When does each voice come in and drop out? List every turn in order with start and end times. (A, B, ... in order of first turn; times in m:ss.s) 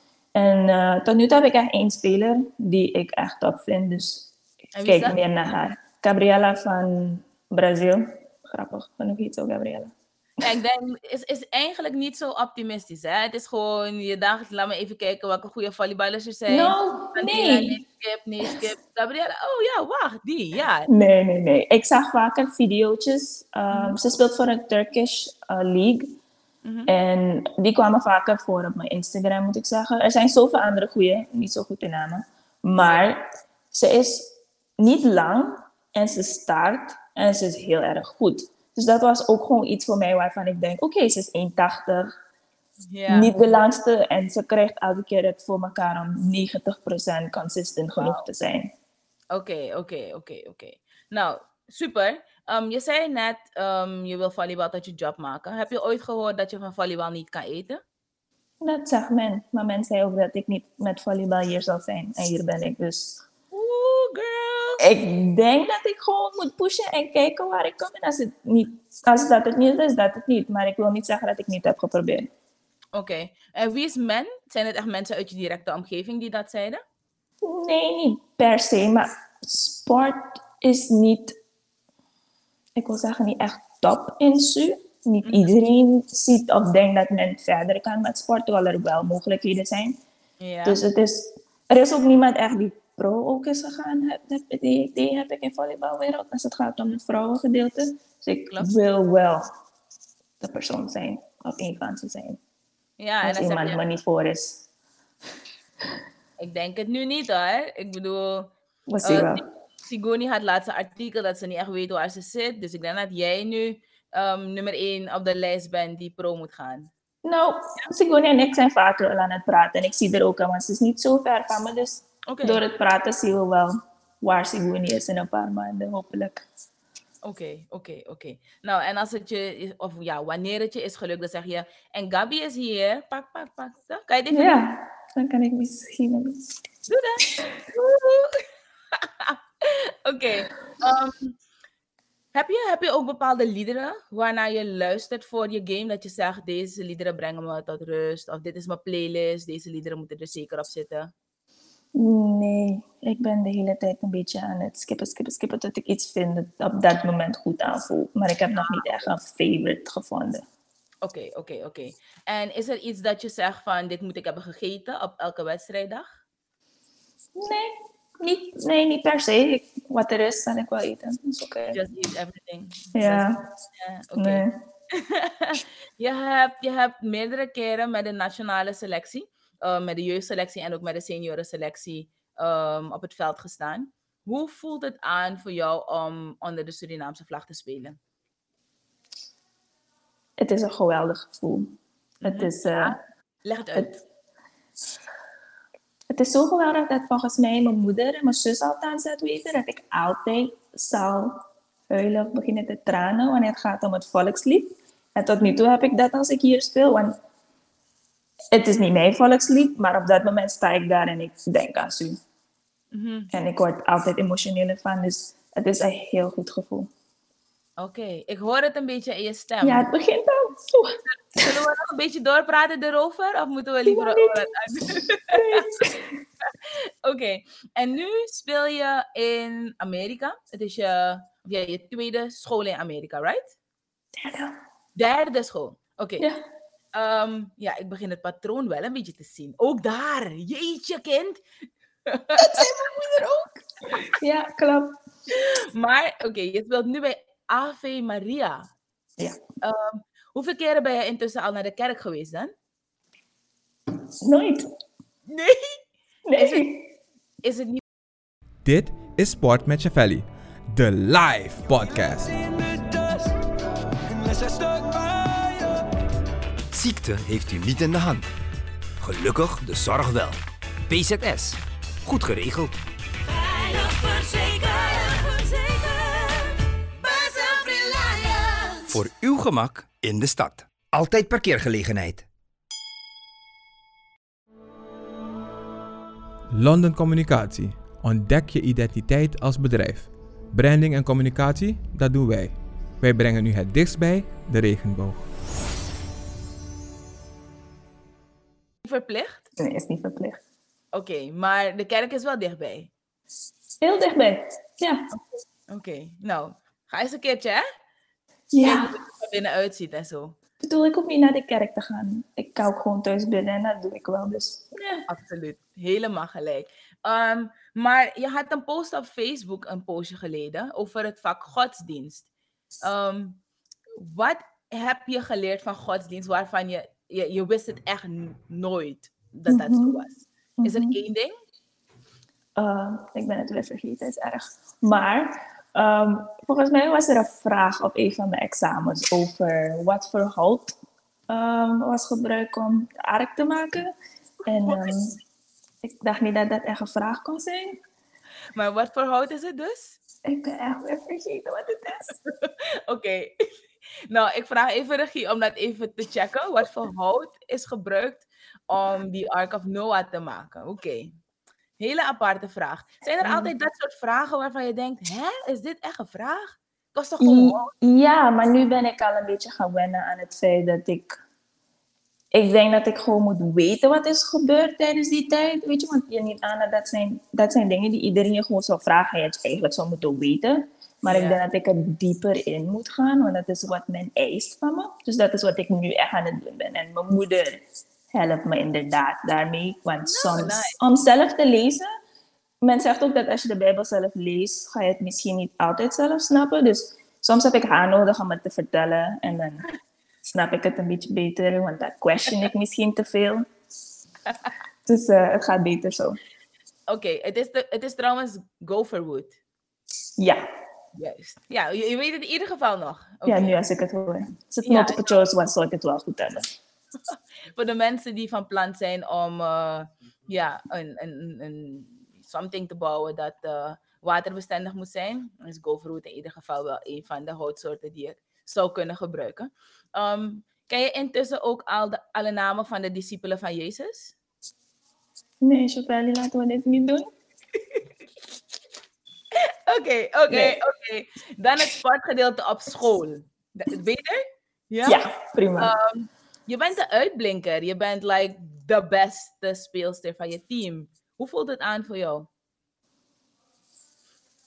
0:00.4-0:04.3 A
0:04.8-0:05.2 B
0:04.8-0:09.9 A
0:10.4-0:20.9 B
0:16.5-0:17.8 A
0:20.9-0:26.2 A
0:23.7-0:24.0 B
0:26.6-0:26.9 B
0:26.9-0:42.1 A
0:32.8-0:33.0 B
0:42.9-0:43.4 B
0:43.1-0:48.7 A
0:48.0-0:48.2 B
0:49.3-0:57.8 B
0:58.6-1:03.2 A
1:03.5-1:04.8 B
1:04.8-1:12.3 A
1:12.9-1:16.8 B
1:17.4-1:21.4 A
1:22.8-1:30.0 A
1:30.4-1:30.8 B
1:30.6-1:39.4 A
1:40.4-1:42.4 A
1:43.0-1:43.8 B
1:43.2-1:44.7 A
1:46.4-1:48.5 B
1:48.9-1:49.4 A
1:49.0-1:56.9 B
1:57.2-2:06.4 A
2:02.3-2:02.6 B
2:07.2-2:14.6 B
2:14.3-2:16.5 A
2:16.9-2:21.4 B
2:22.3-2:31.1 B
2:32.0-2:40.4 A
2:38.6-2:38.9 B
2:41.0-2:46.1 B
2:47.4-2:51.8 A
2:51.7-3:08.0 B
2:53.0-2:53.5 A
2:54.2-2:54.6 A
3:10.4-3:13.0 A
3:12.2-3:14.0 B
3:16.1-3:27.2 A
3:28.5-3:32.2 A
3:32.9-3:33.3 B
3:33.3-3:36.9 A
3:37.8-3:39.9 B
3:39.6-3:41.0 A
3:41.3-3:45.8 B
3:43.9-3:44.4 A
3:45.3-3:46.0 A
3:46.5-3:53.5 B
3:54.2-3:54.6 A
3:55.0-3:56.2 B
3:57.0-4:01.4 B
4:02.1-4:02.6 B
4:02.4-4:03.6 A
4:04.1-4:05.0 A
4:05.3-4:08.7 B
4:09.6-4:12.5 B
4:14.2-4:14.7 A
4:15.3-4:15.8 B
4:16.3-4:16.9 A
4:16.4-4:16.7 B
4:17.4-4:17.8 B
4:18.6-4:22.6 C
4:24.1-4:25.2 D
4:26.7-4:28.3 D
4:29.0-4:32.8 D
4:33.6-4:35.4 E
4:37.3-4:38.1 E
4:38.9-4:42.2 D
4:46.5-4:55.2 C
4:58.8-4:59.4 B
4:59.6-5:00.4 A
5:00.9-5:02.9 B
5:03.8-5:05.1 A
5:05.1-5:07.6 B
5:08.5-5:09.0 A
5:08.6-5:10.4 B
5:10.6-5:15.1 A
5:15.1-5:22.3 B
5:22.8-5:23.4 B
5:24.0-5:31.4 B
5:29.5-5:30.0 A
5:30.6-5:31.0 A
5:32.6-5:40.8 A
5:41.3-5:43.9 A
5:44.5-5:45.2 A
5:44.7-5:44.9 B
5:45.8-5:47.8 A
5:48.6-5:50.0 B
5:50.3-5:52.2 A
5:52.1-5:53.3 B
5:54.1-6:01.1 B
6:01.8-6:07.7 B
6:03.2-6:03.5 A
6:07.2-6:11.2 A
6:12.3-6:31.9 A
6:21.1-6:21.4 B
6:30.0-6:30.8 B
6:32.6-6:39.7 A
6:40.2-6:43.5 A
6:44.9-6:46.2 A
6:46.9-6:49.4 B
6:51.0-6:53.6 B
6:53.3-6:56.5 A
6:54.7-6:55.2 B
6:57.1-7:14.1 B
7:15.4-7:17.1 A
7:19.4-7:25.0 B
7:20.3-7:20.6 A
7:24.8-7:25.7 A
7:25.6-7:32.3 B